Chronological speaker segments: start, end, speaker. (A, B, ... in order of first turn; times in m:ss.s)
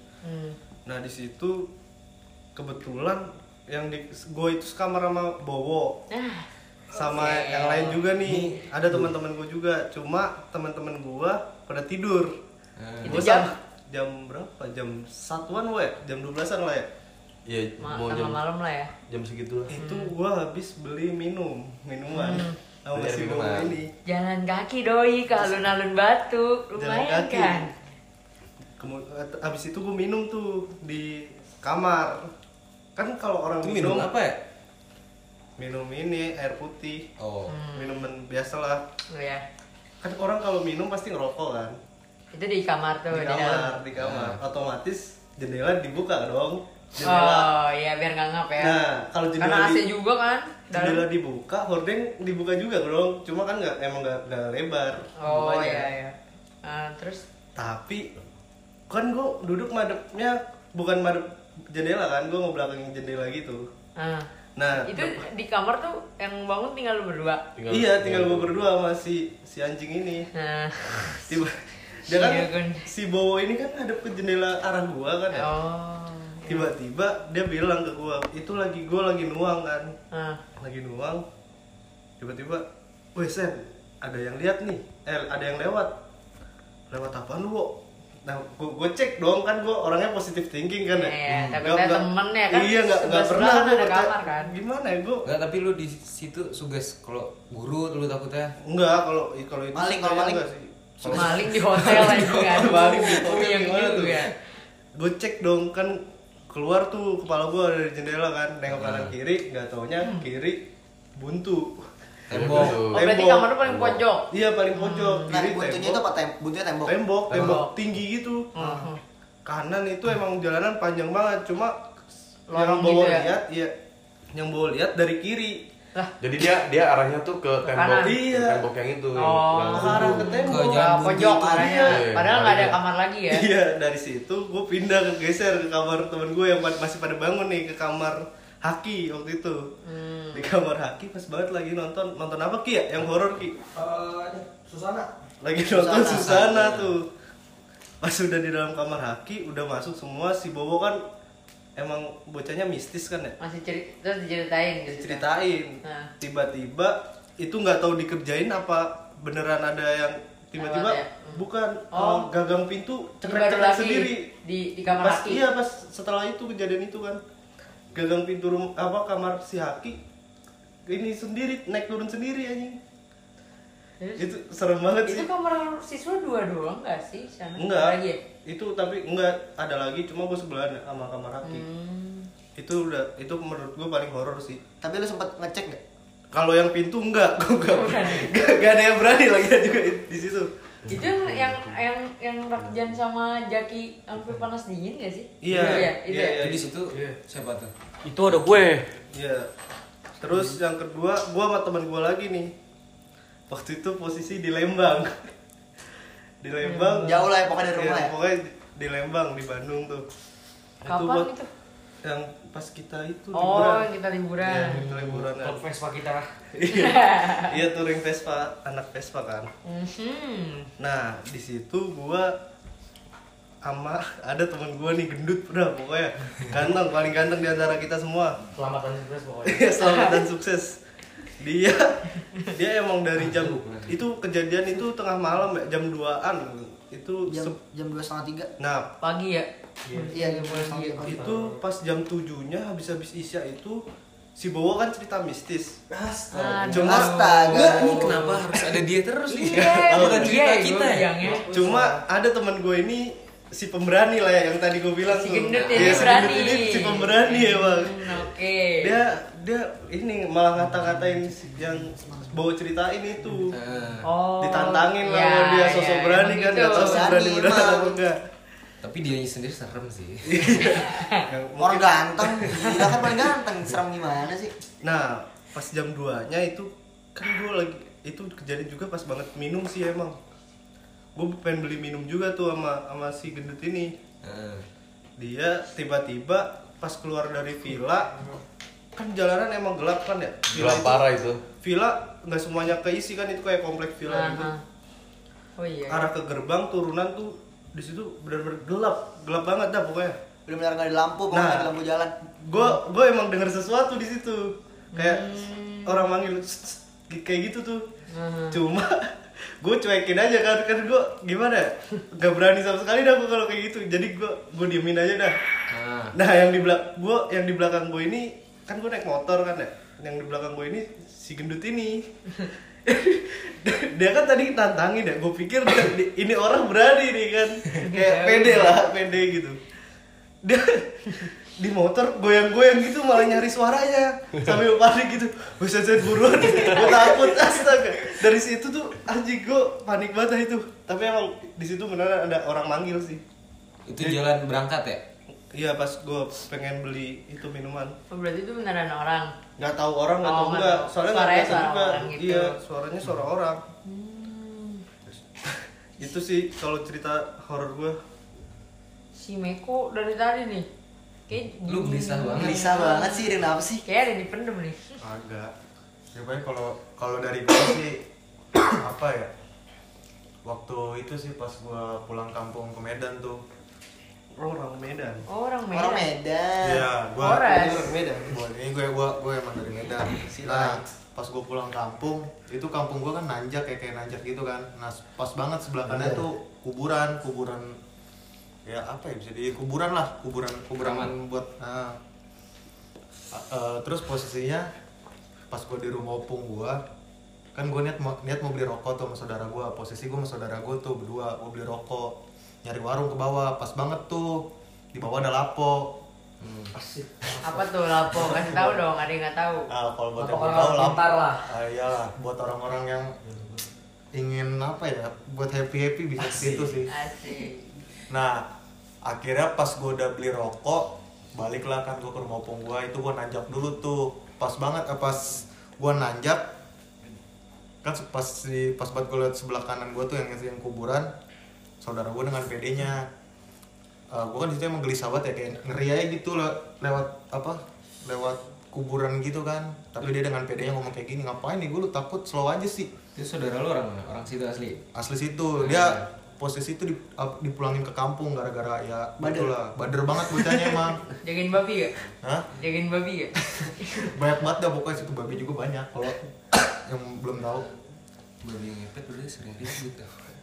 0:00.2-0:00.6 A
0:00.9-0:01.7 B
0:02.6-0:06.0 B
0:06.1-0:08.0 A
0:06.9-0:12.4 B
0:08.2-0:09.0 C
0:12.8-0:13.2 C
0:13.0-0:13.5 A
0:13.0-0:16.9 B
0:17.5-0:18.4 D
0:17.8-0:18.9 A
0:19.1-0:19.7 D
0:19.7-0:23.9 B
0:19.8-0:20.1 A
0:22.1-0:22.6 A
0:22.9-0:23.8 D
0:24.1-0:27.7 A
0:25.4-0:25.6 B
0:26.8-0:27.7 B
0:28.8-0:32.3 B
0:33.0-0:34.1 B
0:33.6-0:34.4 C
0:35.6-0:37.1 B
0:37.2-0:37.5 C
0:37.5-0:38.1 A
0:37.8-0:38.8 B
0:39.1-0:39.4 A
0:40.0-0:41.8 B
0:42.3-0:43.8 A
0:43.1-0:47.5 B
0:44.0-0:44.4 C
0:47.0-0:48.8 A
0:48.6-0:49.8 B
0:49.4-0:51.0 A
0:50.7-0:55.9 B
0:55.2-0:57.2 A
0:57.6-0:58.1 B
0:58.9-1:03.6 B
1:04.0-1:04.3 A
1:04.6-1:05.2 B
1:04.8-1:07.4 A
1:07.6-1:08.6 D
1:07.7-1:10.3 B
1:10.3-1:11.4 A
1:11.3-1:15.5 B
1:12.1-1:12.9 A
1:15.3-1:16.7 A
1:16.5-1:19.9 B
1:20.1-1:20.4 A
1:20.6-1:21.2 B
1:22.2-1:25.9 B
1:26.9-1:35.3 B
1:30.9-1:34.5 A
1:31.3-1:31.6 C
1:35.2-1:38.6 C
1:38.6-1:44.3 B
1:39.7-1:40.4 E
1:41.0-1:44.3 A
1:41.7-1:42.8 C
1:45.0-1:46.0 B
1:46.5-1:50.6 B
1:48.7-1:49.2 C
1:51.2-1:53.5 B
1:52.3-1:52.8 C
1:52.3-1:53.1 D
1:52.9-1:55.4 A
1:53.6-1:54.0 D
1:54.3-1:56.0 B
1:55.3-1:57.0 E
1:56.9-1:58.5 B
1:57.3-1:57.7 A
1:58.6-1:59.0 A
1:58.6-1:58.9 E
1:59.5-2:01.8 B
2:02.5-2:03.3 A
2:02.5-2:03.7 B
2:04.3-2:05.6 B
2:06.2-2:10.4 D
2:07.7-2:08.2 A
2:08.0-2:08.7 B
2:09.2-2:13.4 A
2:09.7-2:12.1 B
2:10.4-2:11.4 C
2:11.8-2:12.8 D
2:13.3-2:19.6 B
2:19.8-2:20.5 A
2:20.3-2:23.6 B
2:23.8-2:25.0 F
2:25.4-2:27.1 B
2:25.6-2:26.4 E
2:26.1-2:26.9 C
2:28.0-2:31.0 B
2:31.8-2:33.4 B
2:33.4-2:35.3 A
2:34.9-2:44.3 B
2:35.8-2:36.1 A
2:40.6-2:42.3 A
2:43.2-2:45.4 A
2:44.9-2:47.2 B
2:47.9-2:50.0 B
2:50.9-2:52.8 B
2:54.2-2:55.3 B
2:55.1-2:58.2 A
2:57.6-3:01.6 B
3:01.4-3:02.3 A
3:02.6-3:04.6 B
3:04.8-3:05.8 E
3:06.3-3:10.5 B
3:07.7-3:08.5 A
3:10.9-3:11.6 D
3:10.9-3:16.4 A
3:15.4-3:16.8 B
3:15.5-3:15.8 C
3:16.4-3:17.7 C
3:18.0-3:18.9 F
3:19.1-3:19.5 B
3:20.2-3:22.5 B
3:23.5-3:25.3 B
3:26.4-3:30.1 B
3:26.6-3:27.1 A
3:27.0-3:28.1 E
3:30.8-3:31.3 B
3:30.9-3:31.5 A
3:32.0-3:33.9 B
3:33.3-3:34.8 A
3:34.4-3:35.6 B
3:34.9-3:36.3 F
3:36.6-3:39.5 B
3:36.7-3:37.5 A
3:39.6-3:40.7 A
3:40.8-3:42.3 B
3:43.6-3:48.4 B
3:48.6-3:49.7 F
3:49.4-3:50.8 B
3:49.8-3:50.2 A
3:51.4-3:57.5 B
3:53.2-3:54.0 C
3:57.3-3:58.5 E
3:58.6-3:58.9 B
3:59.0-4:01.2 A
4:00.1-4:01.4 E
4:01.0-4:03.8 B
4:04.4-4:05.8 B
4:06.2-4:08.4 E
4:06.4-4:07.8 A
4:06.7-4:08.0 B
4:07.5-4:11.4 C
4:09.3-4:11.5 A
4:09.5-4:10.4 B
4:11.2-4:12.0 F
4:11.4-4:18.3 B
4:15.1-4:19.0 A
4:15.6-4:16.4 C
4:18.8-4:23.6 B
4:23.5-4:24.1 C
4:24.0-4:27.0 A
4:24.4-4:28.2 B
4:26.7-4:28.0 E
4:28.8-4:30.8 C
4:30.3-4:32.6 B
4:30.7-4:31.2 A
4:31.6-4:34.6 E
4:34.8-4:40.2 B
4:41.2-4:43.9 B
4:44.2-4:44.6 C
4:45.2-4:48.4 B
4:49.0-4:51.1 B
4:50.5-4:51.4 D
4:51.6-4:54.5 B
4:54.1-4:54.6 A
4:55.6-4:56.1 A
4:55.9-5:00.2 B
5:00.5-5:02.1 E
5:01.3-5:01.7 B
5:02.4-5:07.8 B
5:04.9-5:06.0 A
5:08.1-5:08.6 A
5:08.5-5:15.4 B
5:15.7-5:16.2 C
5:16.1-5:22.0 B
5:22.8-5:29.6 B
5:27.8-5:28.8 A
5:30.4-5:43.2 B
5:43.9-5:45.0 C
5:45.5-5:48.0 B
5:48.1-5:49.3 A
5:49.6-5:53.6 B
5:50.2-5:52.6 A
5:53.8-5:54.9 A
5:55.4-5:58.0 B
5:59.2-6:00.7 A
6:01.3-6:03.3 A
6:01.7-6:02.7 C
6:02.3-6:03.8 E
6:03.9-6:05.0 A
6:05.1-6:05.5 G
6:06.1-6:08.0 G
6:08.7-6:09.3 G
6:10.4-6:13.4 G
6:14.4-6:15.2 B
6:15.3-6:16.1 A
6:15.7-6:18.0 E
6:16.6-6:27.8 G
6:17.2-6:17.8 A
6:17.3-6:18.3 B
6:20.2-6:20.8 B
6:20.4-6:20.8 E
6:25.9-6:26.3 E
6:28.6-6:32.0 G
6:30.8-6:31.2 C
6:33.3-6:34.7 G
6:35.5-6:36.8 G
6:37.6-6:46.0 G
6:46.4-6:46.7 C
6:46.8-6:47.7 F
6:47.4-6:49.7 A
6:48.2-6:48.7 G
6:49.7-6:53.1 G
6:50.2-6:51.4 F
6:54.1-6:56.9 G
6:56.3-6:56.8 C
6:56.9-6:57.6 A
6:58.1-6:58.4 G
6:59.0-7:06.5 G
7:07.8-7:11.1 G
7:11.8-7:13.1 G
7:14.1-7:22.9 G
7:23.2-7:24.8 C
7:24.9-7:31.1 G
7:25.6-7:26.0 C
7:29.2-7:29.5 E
7:31.2-7:32.0 A
7:32.2-7:32.5 G
7:32.6-7:34.1 A
7:33.5-7:37.7 G
7:38.4-7:40.1 C